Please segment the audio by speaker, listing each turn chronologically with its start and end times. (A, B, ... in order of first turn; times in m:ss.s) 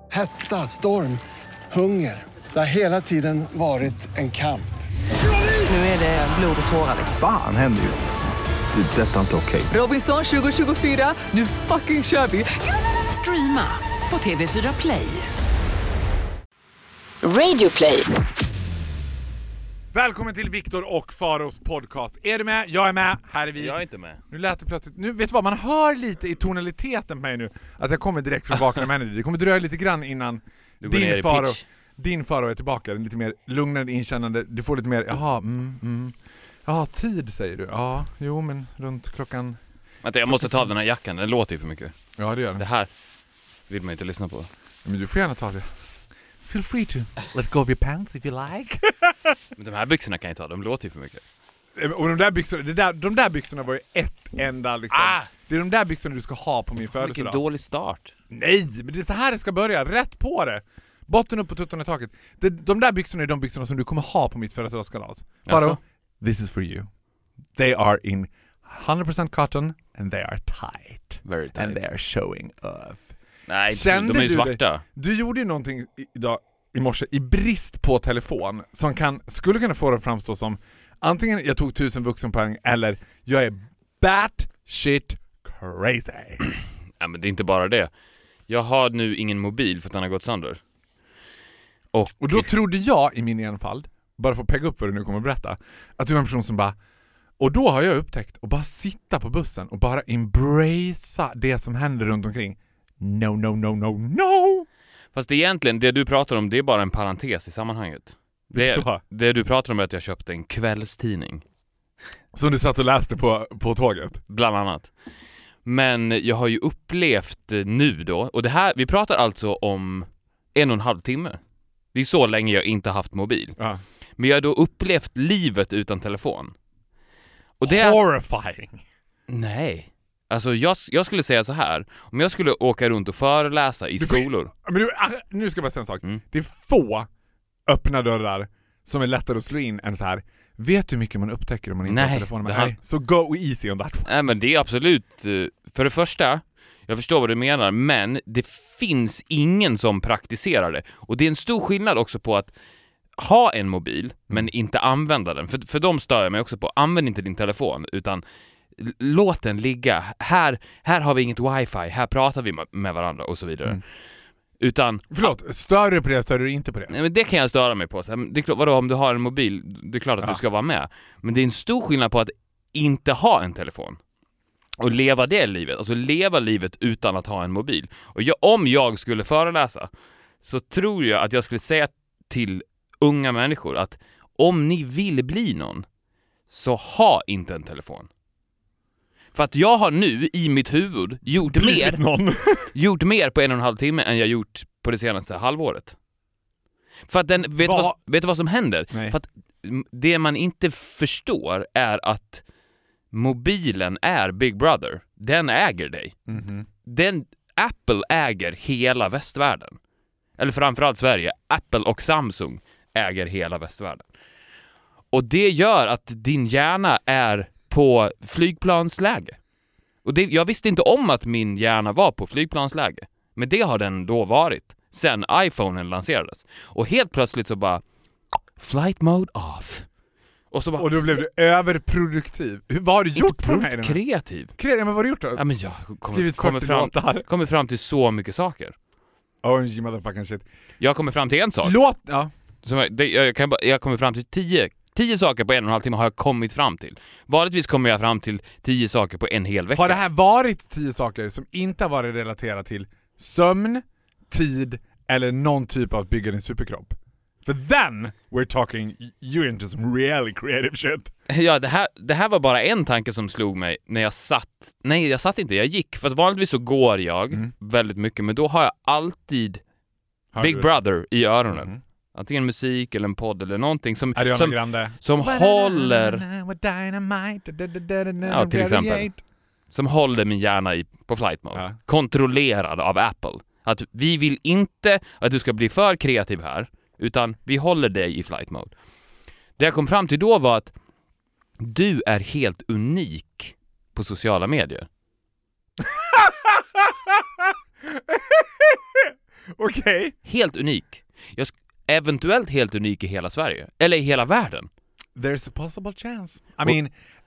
0:00.1-0:04.7 A
0:05.4-0:07.1 B
0:07.1-0:08.1 C
0:08.7-0:09.7 C
0:09.7-0:15.3 B
0:17.2-0:18.1 B
0:19.9-0:39.6 D
0:23.6-0:24.2 E
0:30.8-0:31.6 E
0:40.0-0:41.9 E
0:40.3-0:40.7 D
0:42.2-0:42.6 D
0:42.6-0:42.9 E
0:43.7-0:44.5 E
0:44.8-0:45.7 D
0:46.4-0:49.4 D
0:49.6-0:51.2 E
0:51.8-0:57.4 D
0:54.9-0:55.3 E
0:56.8-0:58.1 E
0:58.3-1:06.9 D
1:05.4-1:05.8 E
1:07.6-1:13.1 D
1:11.2-1:11.8 E
1:13.5-1:14.8 E
1:13.7-1:26.4 D
1:27.0-1:27.9 E
1:28.5-1:30.6 E
1:31.9-1:32.5 E
1:32.2-1:36.8 D
1:37.4-1:44.7 D
1:45.1-1:51.4 E
1:48.5-1:49.0 D
1:52.3-1:54.2 D
1:54.3-1:54.9 E
1:55.6-2:01.4 E
2:01.9-2:03.6 E
2:04.2-2:06.5 E
2:07.6-2:08.0 E
2:07.6-2:08.8 D
2:09.3-2:14.5 E
2:14.0-2:17.1 D
2:17.7-2:24.1 D
2:21.8-2:22.7 E
2:24.0-2:32.5 E
2:33.2-2:38.2 E
2:38.8-2:43.8 E
2:44.6-2:45.3 E
2:45.1-2:46.9 D
2:46.9-2:54.0 E
2:54.8-2:59.9 E
3:00.4-3:05.8 E
3:06.5-3:08.1 E
3:09.3-3:12.0 E
3:11.4-3:12.7 D
3:12.7-3:15.9 E
3:17.1-3:22.4 E
3:17.6-3:18.0 D
3:18.9-3:19.2 D
3:23.1-3:26.2 E
3:26.3-3:26.6 D
3:26.8-3:29.8 E
3:30.4-3:34.0 E
3:35.1-3:39.4 E
3:40.0-3:47.8 E
3:48.6-3:49.9 E
3:50.5-3:51.2 E
3:50.8-3:54.0 D
3:53.1-3:54.5 E
3:54.6-3:55.4 D
3:55.4-3:58.8 E
3:56.1-3:57.2 D
3:59.4-4:00.4 D
4:00.8-4:01.8 E
4:01.6-4:02.3 D
4:02.6-4:10.0 E
4:09.8-4:21.1 D
4:21.3-4:29.6 E
4:30.3-4:30.7 D
4:30.4-4:36.2 E
4:31.5-4:31.8 D
4:34.1-4:39.2 D
4:38.2-4:39.1 E
4:39.7-4:48.7 E
4:49.6-4:50.7 E
4:51.6-4:54.9 E
4:55.8-5:00.1 D
5:00.2-5:04.7 E
5:05.2-5:06.9 D